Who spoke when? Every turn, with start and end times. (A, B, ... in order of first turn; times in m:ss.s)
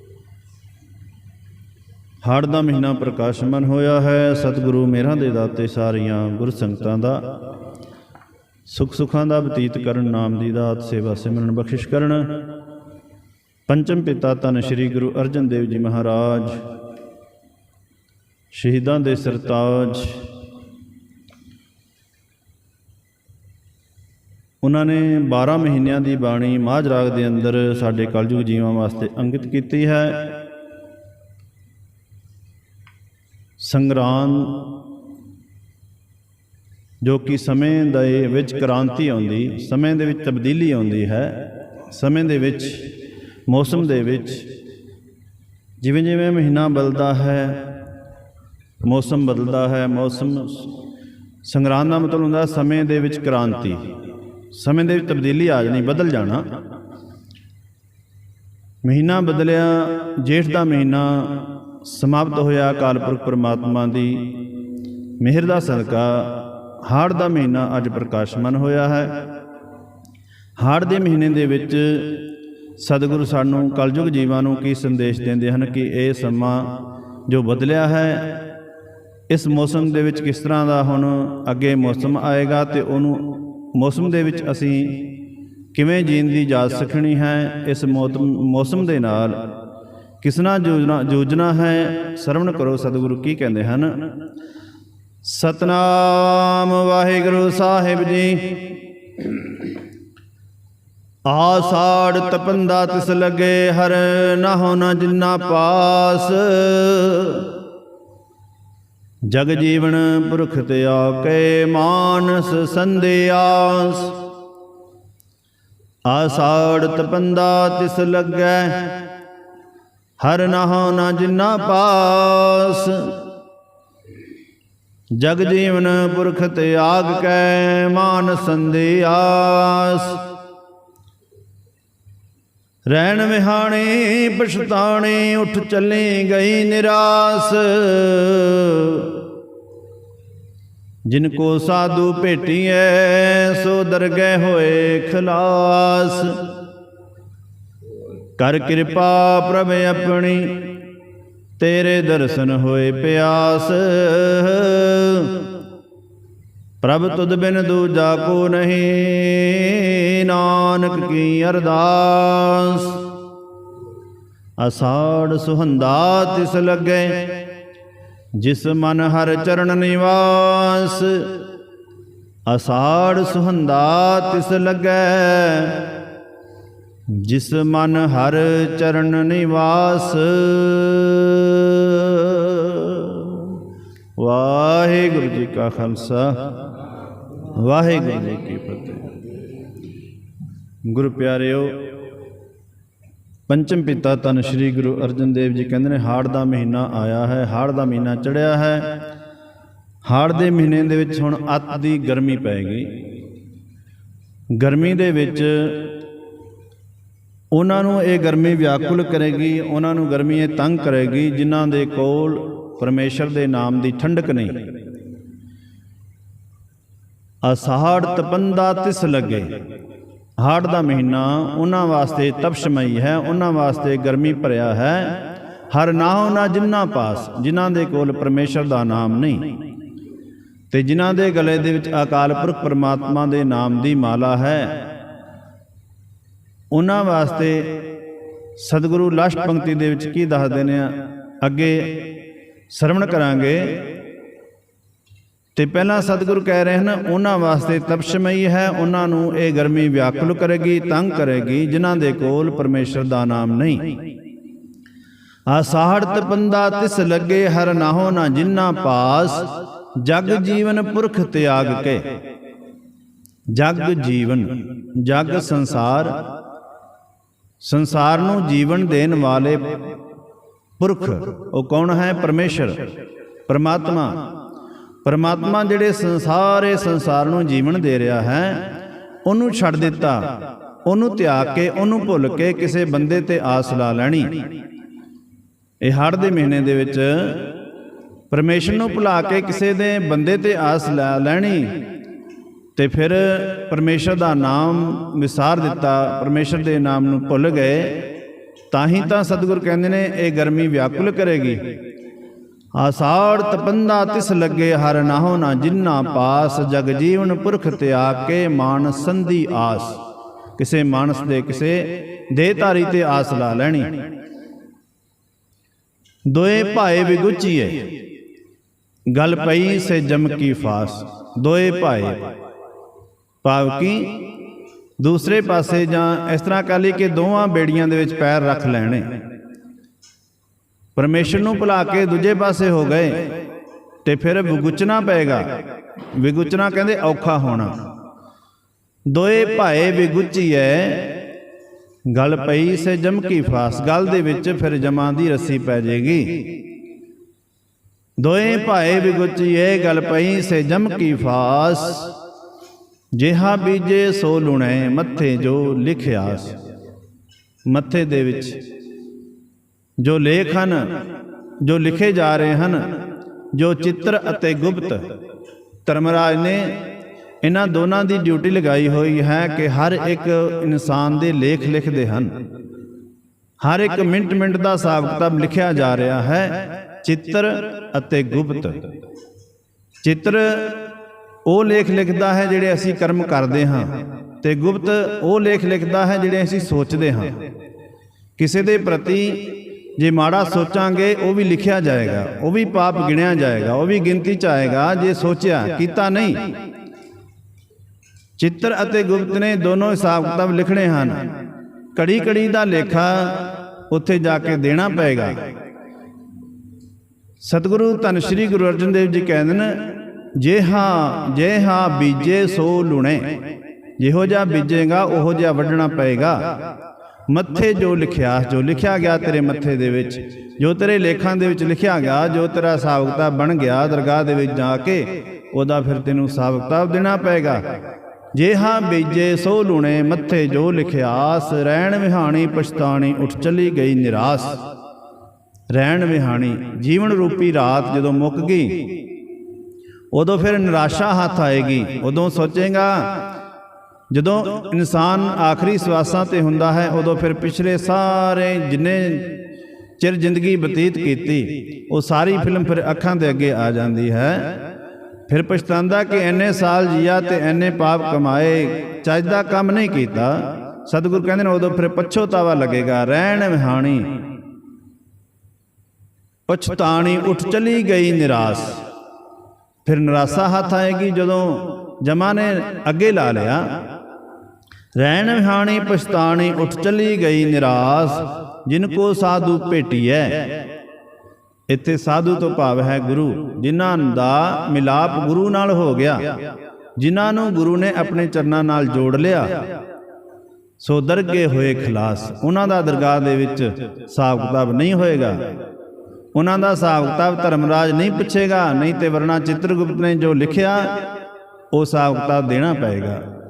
0:02.2-0:07.2 A
0:08.7-0:12.4 A
0:13.7-0:16.6 A
0:18.5-0:20.2 A
0:24.6-0:30.4 A
0:33.6-0:34.7 A
0:37.0-0:42.9 A
0:43.5-0:44.5 A
0:45.8-0:47.7 A
0:48.8-0:50.7 A
0:51.4-0:53.9 A
0:54.5-0:56.5 A
0:58.8-1:04.4 A
1:05.2-1:09.3 A
1:10.6-1:12.2 A
1:12.8-1:18.4 A
1:19.3-1:25.1 A
1:25.7-1:29.4 A
1:30.2-1:34.1 A
1:35.2-1:39.2 A
1:41.2-1:47.5 A
1:49.3-1:54.2 A
1:56.0-1:59.1 A
2:00.2-2:03.2 A
2:05.2-2:10.3 A
2:12.9-2:19.2 A
2:21.1-2:26.4 A
2:28.4-2:30.7 A
2:31.6-2:35.5 A
2:36.8-2:43.1 A
2:44.6-2:47.5 A
2:48.4-2:51.4 A
2:52.4-2:56.0 A
2:57.1-3:03.6 A
3:04.2-3:06.5 A
3:07.5-3:09.1 A
3:10.8-3:11.9 A
3:13.5-3:18.9 A
3:20.0-3:22.9 A
3:24.5-3:25.9 A
3:27.5-3:34.7 A
3:37.4-3:39.6 A
3:40.4-3:49.6 A
3:50.7-3:54.8 A
3:56.7-3:57.9 A
3:58.6-4:02.1 A
4:02.7-4:03.9 A
4:05.5-4:14.1 A
4:15.5-4:22.1 A
4:23.5-4:26.2 A
4:27.6-4:29.8 A
4:30.8-4:32.9 A
4:33.5-4:34.3 A
4:35.0-4:38.7 A
4:39.2-4:44.5 A
4:45.8-4:47.5 A
4:48.3-4:51.8 A
4:52.8-4:58.1 A
4:58.7-5:01.6 A
5:02.7-5:10.0 A
5:10.6-5:14.0 A
5:16.3-5:18.0 A
5:19.1-5:22.3 A
5:23.4-5:24.3 A
5:25.0-5:29.1 A
5:31.0-5:33.4 A
5:34.0-5:35.5 A
5:36.1-5:37.8 A
5:39.1-5:41.2 A
5:42.1-5:46.6 A
5:48.2-5:52.1 A
5:53.1-5:56.6 A
5:57.7-5:58.6 A
6:00.0-6:01.0 A
6:01.6-6:03.0 A
6:03.5-6:05.1 A
6:05.8-6:06.8 A
6:07.4-6:12.3 A
6:13.6-6:18.9 A
6:20.0-6:20.9 A
6:21.4-6:27.4 A
6:28.4-6:36.6 A
6:38.4-6:41.3 A
6:41.9-6:45.4 A
6:47.4-6:53.4 A
6:54.0-6:56.7 A
6:57.3-7:07.6 A
7:08.3-7:14.6 A
7:15.7-7:19.0 A
7:20.1-7:23.3 A
7:24.1-7:29.4 A
7:30.0-7:34.7 A
7:35.3-7:44.2 A
7:46.5-7:48.8 A
7:49.8-7:53.8 A
7:55.0-8:00.7 A
8:01.7-8:09.7 A
8:10.8-8:15.5 A
8:16.3-8:21.1 A
8:21.7-8:23.2 A